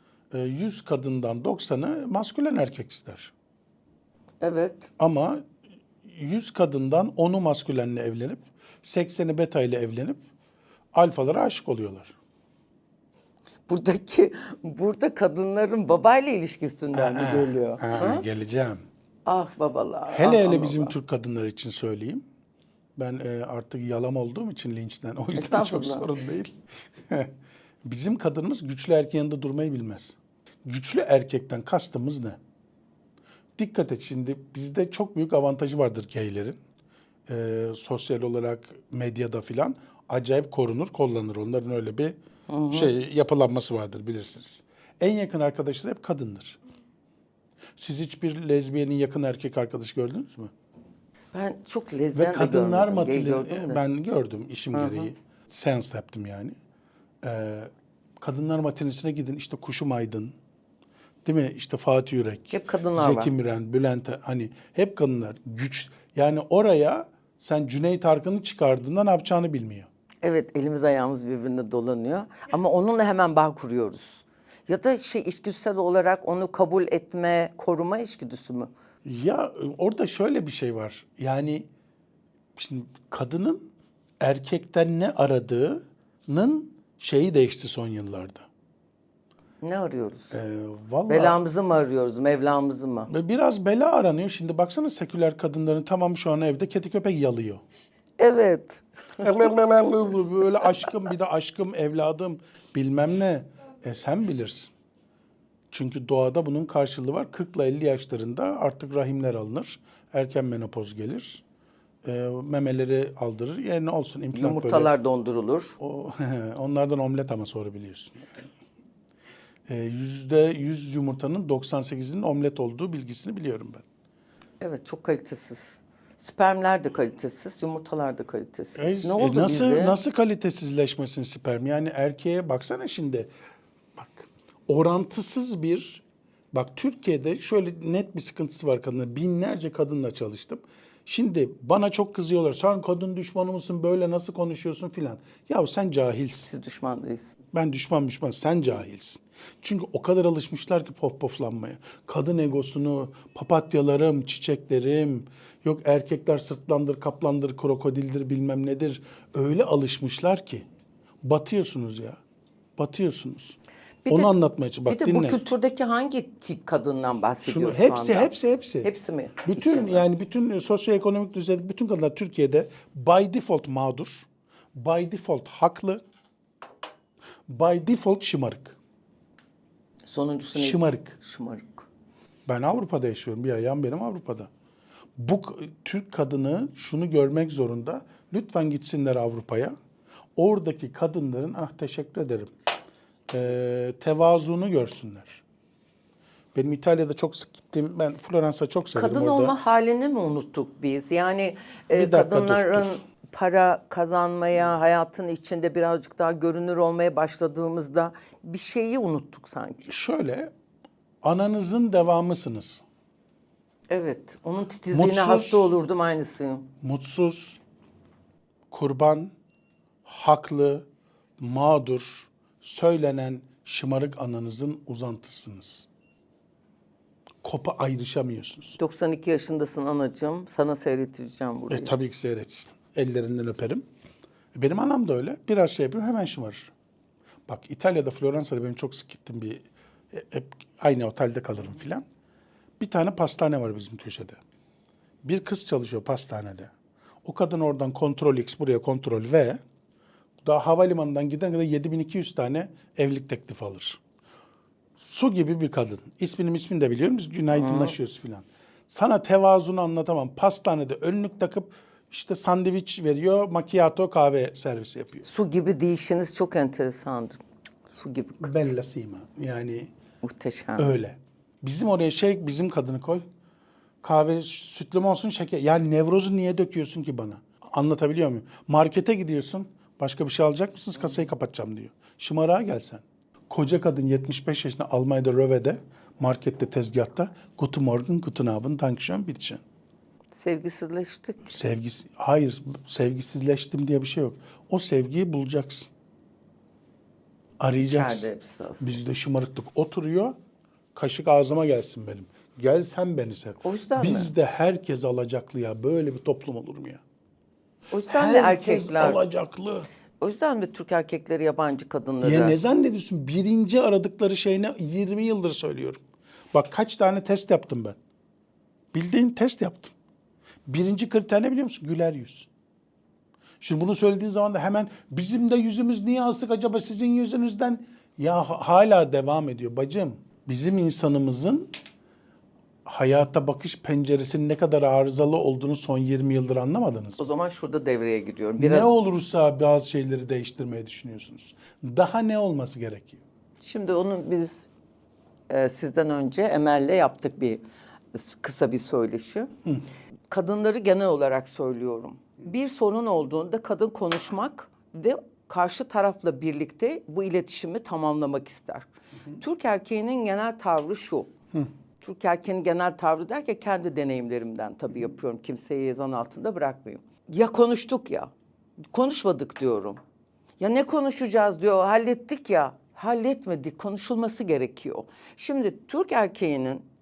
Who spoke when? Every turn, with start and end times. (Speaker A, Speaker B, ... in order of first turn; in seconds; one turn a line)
Speaker A: 0.3-3.3
Speaker B: 4.4-4.9
Speaker A: 5.0-5.4
Speaker A: 6.0-10.2
Speaker A: 10.9-12.1
Speaker B: 13.7-18.2
Speaker A: 16.9-18.8
Speaker B: 19.2-20.9
Speaker A: 20.1-22.2
Speaker A: 23.0-27.3
Speaker B: 25.3-26.1
Speaker A: 27.8-32.4
Speaker A: 33.6-36.6
Speaker A: 37.3-42.1
Speaker B: 42.5-42.9
Speaker A: 42.7-46.6
Speaker A: 47.8-50.5
Speaker B: 51.3-53.8
Speaker A: 52.1-56.5
Speaker B: 54.7-55.1
Speaker A: 57.2-60.3
Speaker A: 61.2-69.9
Speaker B: 62.5-63.3
Speaker B: 70.2-78.7
Speaker A: 79.0-81.7
Speaker A: 82.5-83.7
Speaker A: 84.2-88.5
Speaker B: 89.6-90.4
Speaker A: 90.3-91.4
Speaker B: 91.1-93.1
Speaker A: 93.1-97.6
Speaker B: 98.2-99.5
Speaker A: 99.4-104.7
Speaker A: 105.7-111.4
Speaker A: 112.0-114.9
Speaker B: 114.3-115.8
Speaker A: 115.8-118.3
Speaker A: 119.7-123.8
Speaker B: 124.6-130.0
Speaker A: 128.8-133.3
Speaker A: 134.0-146.5
Speaker B: 146.4-147.3
Speaker A: 147.5-160.6
Speaker A: 161.2-162.2
Speaker A: 162.8-163.6
Speaker B: 164.0-164.3
Speaker A: 164.1-165.4
Speaker B: 164.8-170.1
Speaker A: 167.4-168.9
Speaker A: 169.4-176.0
Speaker A: 177.5-178.8
Speaker B: 180.1-181.9
Speaker A: 180.5-181.2
Speaker A: 182.4-184.5
Speaker A: 185.2-189.7
Speaker A: 190.4-192.5
Speaker A: 193.3-195.4
Speaker A: 196.5-199.6
Speaker B: 198.9-209.9
Speaker A: 201.9-203.0
Speaker A: 209.8-210.5
Speaker A: 211.2-212.8
Speaker B: 213.9-216.7
Speaker A: 214.9-215.7
Speaker A: 216.8-217.6
Speaker A: 218.7-219.3
Speaker A: 220.0-220.9
Speaker A: 221.4-225.9
Speaker A: 227.4-228.8
Speaker B: 228.8-231.9
Speaker A: 231.7-233.8
Speaker A: 234.5-236.7
Speaker A: 237.5-242.0
Speaker A: 242.8-244.4
Speaker A: 245.2-246.7
Speaker A: 247.2-249.6
Speaker A: 250.4-254.0
Speaker A: 255.0-265.3
Speaker B: 257.5-257.9
Speaker B: 265.2-268.7
Speaker A: 268.4-269.9
Speaker B: 270.2-270.9
Speaker A: 270.8-273.2
Speaker A: 274.0-289.6
Speaker B: 290.3-291.5
Speaker A: 291.5-295.9
Speaker A: 297.6-298.3
Speaker B: 297.8-298.9
Speaker A: 298.8-300.4
Speaker A: 300.9-307.0
Speaker B: 303.6-304.3
Speaker B: 307.9-309.2
Speaker A: 308.1-309.9
Speaker B: 310.2-312.6
Speaker A: 312.2-316.0
Speaker A: 316.5-318.0
Speaker A: 318.9-319.9
Speaker A: 320.7-322.5
Speaker A: 323.6-331.7
Speaker A: 332.9-337.2
Speaker B: 337.2-338.9
Speaker A: 338.6-343.2
Speaker B: 343.6-344.7
Speaker B: 345.5-347.6
Speaker B: 348.1-349.5
Speaker B: 350.3-361.3
Speaker B: 362.0-368.3
Speaker B: 368.9-370.0
Speaker B: 370.6-376.8